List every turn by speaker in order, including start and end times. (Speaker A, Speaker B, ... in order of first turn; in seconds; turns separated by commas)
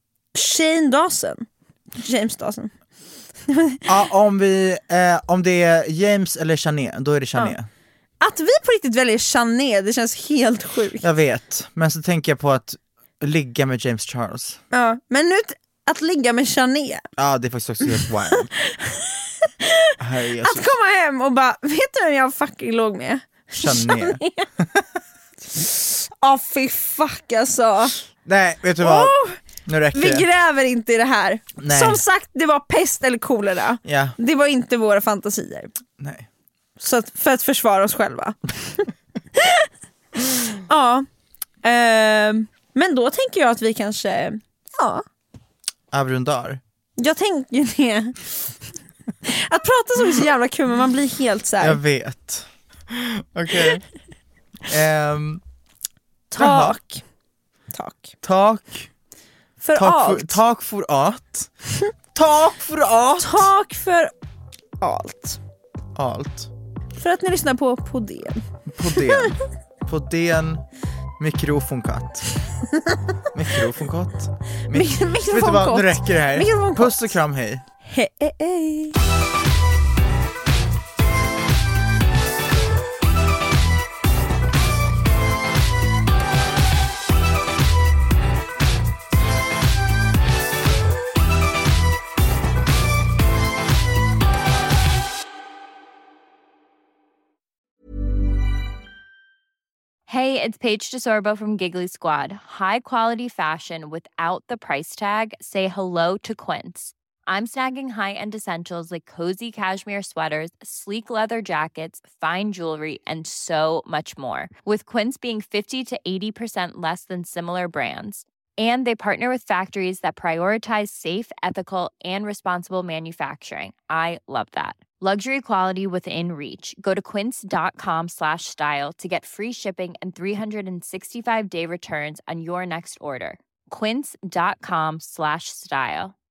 Speaker A: 0.3-1.5, Speaker A: 2.0-2.7, Speaker A: 3.5-3.8, Speaker B: 3.9-7.7, Speaker A: 8.2-11.1, Speaker B: 11.0-14.6, Speaker A: 14.7-17.0, Speaker B: 17.2-18.5, Speaker A: 18.0-19.9, Speaker B: 20.0-20.8, Speaker A: 20.4-24.5, Speaker B: 23.6-24.8, Speaker A: 25.6-28.0, Speaker B: 28.2-30.3, Speaker A: 28.8-29.4, Speaker A: 29.9-35.7, Speaker B: 31.6-32.0, Speaker B: 33.8-34.2, Speaker B: 36.0-36.3, Speaker A: 36.8-39.7, Speaker A: 40.7-41.1, Speaker A: 41.6-45.0, Speaker B: 45.9-46.6, Speaker A: 47.0-48.3, Speaker A: 49.2-51.8, Speaker B: 51.6-53.8, Speaker B: 54.7-55.4, Speaker A: 56.3-57.0, Speaker B: 56.4-56.8, Speaker A: 57.7-58.1, Speaker B: 58.2-58.9, Speaker A: 59.6-60.4, Speaker B: 59.8-61.5, Speaker B: 62.1-63.5, Speaker A: 63.2-64.1, Speaker A: 64.8-65.4, Speaker B: 66.0-66.5, Speaker A: 67.0-69.3, Speaker B: 68.7-70.6, Speaker B: 71.2-72.3, Speaker B: 73.3-77.6, Speaker A: 74.7-77.2, Speaker A: 77.8-79.0, Speaker C: 100.1-136.2